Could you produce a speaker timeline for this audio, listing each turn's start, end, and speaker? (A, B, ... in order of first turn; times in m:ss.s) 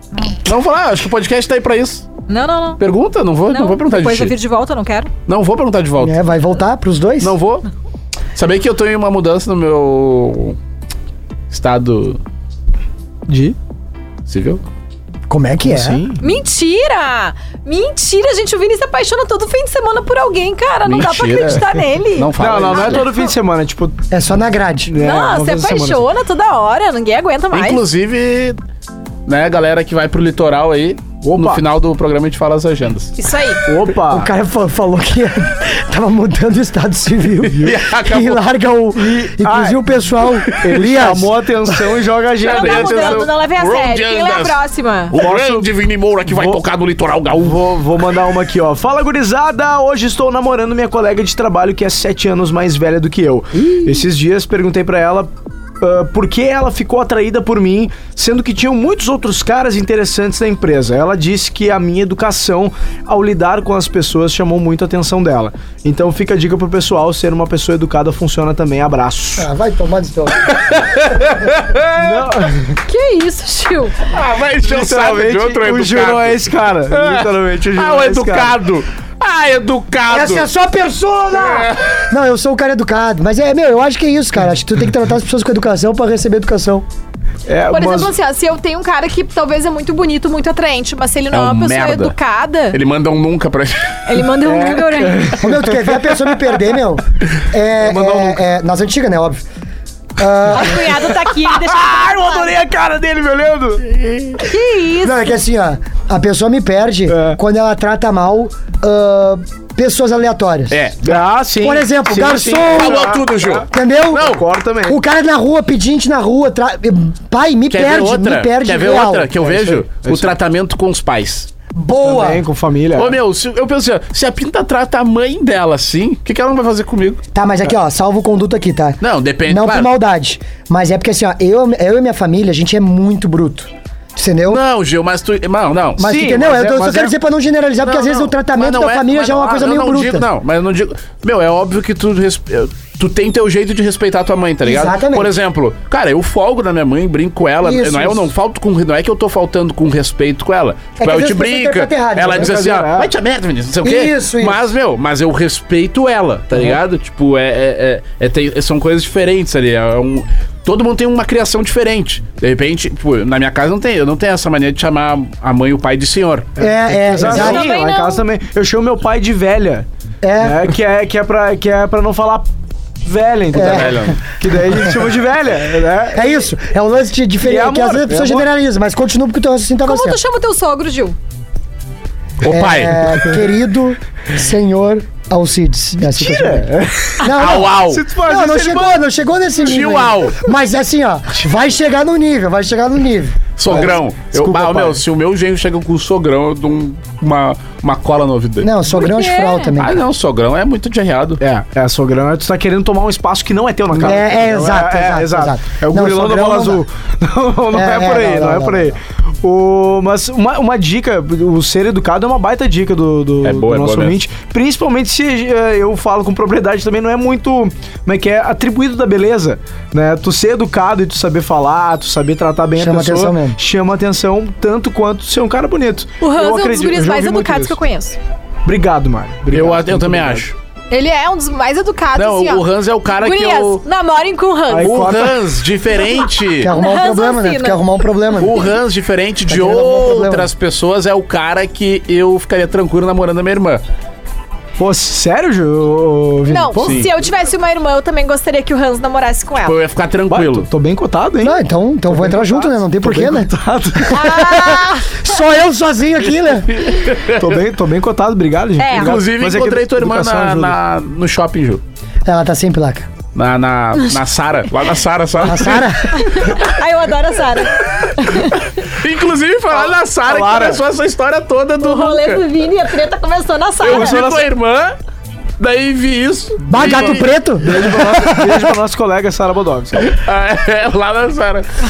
0:00.4-0:02.0 A
0:02.3-0:02.8 B
0:02.8-0:04.3 A
0:03.5-0:05.1 B
0:05.3-0:06.2 A
0:06.0-0:07.4 C
0:07.2-0:07.7 A
0:08.3-0:10.6 A
0:11.5-0:12.2 A
0:13.3-0:13.6 D
0:14.3-0:14.6 A
0:15.3-0:16.0 C
0:15.6-0:16.2 D
0:16.2-0:23.3 B
0:20.8-0:21.6 A
0:22.2-0:23.1 A
0:22.4-0:24.0 D
0:24.1-0:24.9 C
0:24.9-0:26.0 D
0:25.0-0:27.8 B
0:27.5-0:28.6 A
0:29.3-0:33.1 A
0:31.2-0:31.6 D
0:33.2-0:33.6 B
0:33.6-0:34.3 D
0:34.1-0:41.4 C
0:37.4-0:38.4 A
0:39.0-0:39.8 D
0:40.6-0:43.3 D
0:42.4-0:45.2 B
0:42.4-0:44.6 A
0:45.1-0:47.7 A
0:45.1-0:45.7 D
0:46.3-0:46.6 D
0:47.4-1:09.5 D
0:53.5-0:54.1 C
1:09.4-1:10.5 C
1:10.4-1:12.3 A
1:12.0-1:12.8 D
1:12.8-1:14.0 B
1:14.1-1:20.5 A
1:14.6-1:18.5 D
1:20.1-1:26.8 C
1:21.3-1:22.0 A
1:27.4-1:28.1 D
1:27.7-1:32.8 B
1:31.3-1:32.1 A
1:32.7-1:34.2 A
1:34.0-1:35.4 B
1:34.4-1:36.5 D
1:35.4-1:39.4 C
1:37.8-1:38.4 D
1:40.2-1:41.1 C
1:40.5-1:42.6 B
1:40.7-1:43.8 D
1:43.9-1:44.4 A
1:44.4-1:45.3 B
1:45.0-1:50.8 C
1:47.1-1:47.4 D
1:50.7-1:51.0 A
1:51.0-1:55.0 D
1:51.6-1:53.1 C
1:52.7-1:54.4 A
1:53.7-1:54.3 C
1:54.8-1:59.3 C
1:57.7-2:01.5 A
1:59.4-2:00.3 D
2:01.7-2:02.4 C
2:02.0-2:03.2 D
2:03.0-2:07.2 A
2:07.3-2:14.6 C
2:09.0-2:09.9 A
2:14.5-2:16.1 A
2:16.0-2:20.2 C
2:16.0-2:17.1 D
2:17.8-2:46.5 A
2:24.6-2:25.3 C
2:27.6-2:28.3 C
2:31.0-2:32.6 C
2:32.3-2:33.1 D
2:33.8-2:34.7 C
2:46.6-2:49.9 D
2:46.6-2:47.7 C
2:47.2-2:48.2 B
2:50.2-2:50.6 C
2:50.4-2:52.5 D
2:53.0-2:56.4 D
2:53.5-2:54.2 C
2:53.5-2:54.2 A
2:56.1-3:00.2 C
2:57.4-2:58.5 D
2:59.8-3:01.2 B
3:02.4-3:03.3 A
3:02.5-3:06.7 C
3:06.0-3:09.0 D
3:07.2-3:13.9 C
3:07.3-3:08.0 A
3:09.6-3:10.4 A
3:13.6-3:18.7 A
3:13.7-3:15.0 D
3:18.6-3:20.0 C
3:18.9-3:19.8 B
3:19.8-3:21.4 A
3:21.4-3:47.8 D
3:23.9-3:24.2 A
3:23.9-3:26.8 C
3:27.7-3:29.0 C
3:33.4-3:34.2 A
3:42.8-3:43.6 C
3:46.2-3:48.2 B
3:48.6-3:50.5 D
3:49.5-3:50.6 A
3:50.9-3:55.1 B
3:52.1-3:53.8 A
3:54.7-3:55.4 D
3:54.8-3:56.7 A
3:56.6-3:58.7 C
3:56.7-3:58.6 B
3:58.4-4:03.8 A
3:59.5-4:00.5 C
4:04.8-4:07.0 D
4:06.5-4:09.8 B
4:06.8-4:07.1 A
4:09.6-4:10.7 A
4:10.3-4:14.4 D
4:11.4-4:16.9 C
4:14.1-4:15.3 B
4:16.7-4:17.6 A
4:17.4-4:20.8 D
4:18.8-4:19.2 B
4:18.9-4:21.8 A
4:22.2-4:23.1 C
4:23.3-4:26.6 A
4:25.4-4:26.4 C
4:26.1-4:28.6 B
4:28.0-4:32.4 A
4:29.7-4:30.8 D
4:31.8-4:34.3 B
4:33.8-4:34.9 A
4:33.8-4:34.4 D
4:35.6-4:37.3 A
4:36.7-4:38.8 C
4:37.6-4:40.1 D
4:40.0-4:41.7 A